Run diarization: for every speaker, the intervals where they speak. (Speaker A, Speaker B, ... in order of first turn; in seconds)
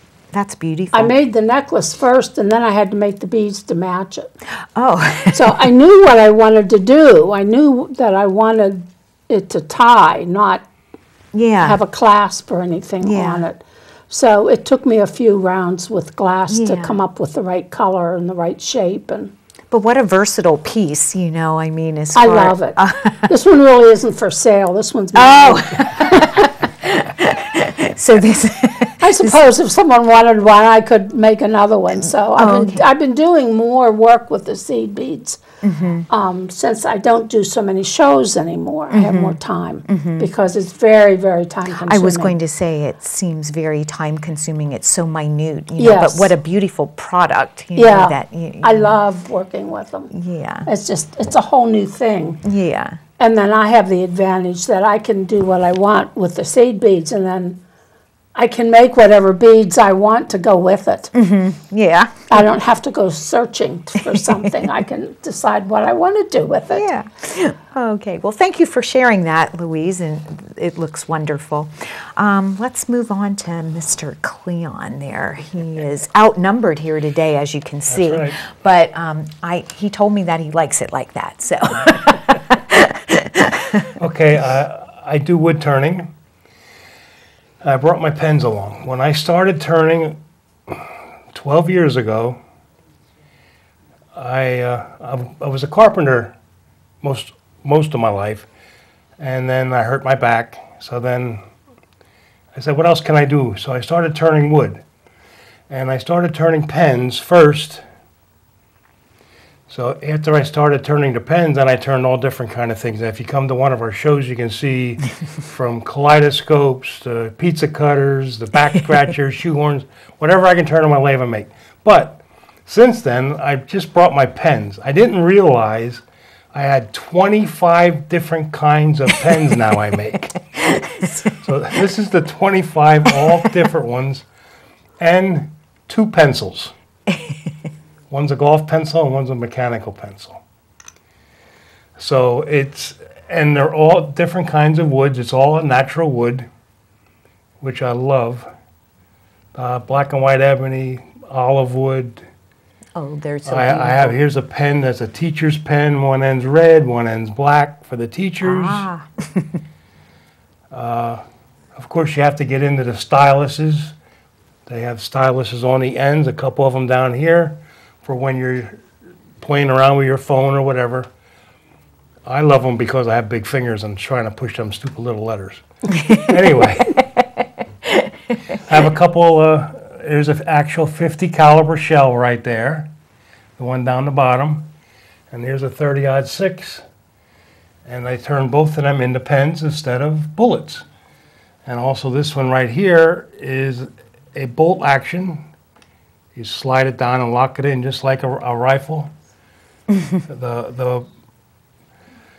Speaker A: 0.3-1.1, 4.8-5.6, 11.3-11.8, 13.0-13.4, 16.5-17.0, 19.7-23.3, 25.1-29.5, 32.4-32.9, 35.6-36.1, 38.9-40.3, 41.7-48.9, 50.1-50.7, 52.4-53.0, 61.1-62.5, 64.1-64.5, 66.7-84.0, 153.0-154.2, 158.4-159.6
Speaker B: 0.9-4.3, 5.3-10.7, 11.6-19.3, 22.1-26.5, 29.0-35.4, 36.1-42.4, 45.8-46.3, 47.8-50.1, 50.7-52.4, 53.2-57.6, 58.4-61.1, 62.3-66.9
Speaker C: 77.9-78.5, 84.0-86.1, 87.6-92.4, 94.2-96.3, 97.0-98.5, 99.2-101.4, 102.5-104.8, 105.7-107.8, 109.7-130.4, 131.3-134.2, 135.0-136.7, 138.1-140.4, 142.0-146.5, 147.6-148.5, 149.6-152.2, 153.5-158.9, 160.7-161.2, 161.8-163.9, 164.7-168.8, 169.4-171.1, 172.3-177.0, 178.5-182.9, 183.6-184.7, 185.3-186.8, 187.9-190.8, 191.7-195.4, 196.3-199.1, 200.2-201.1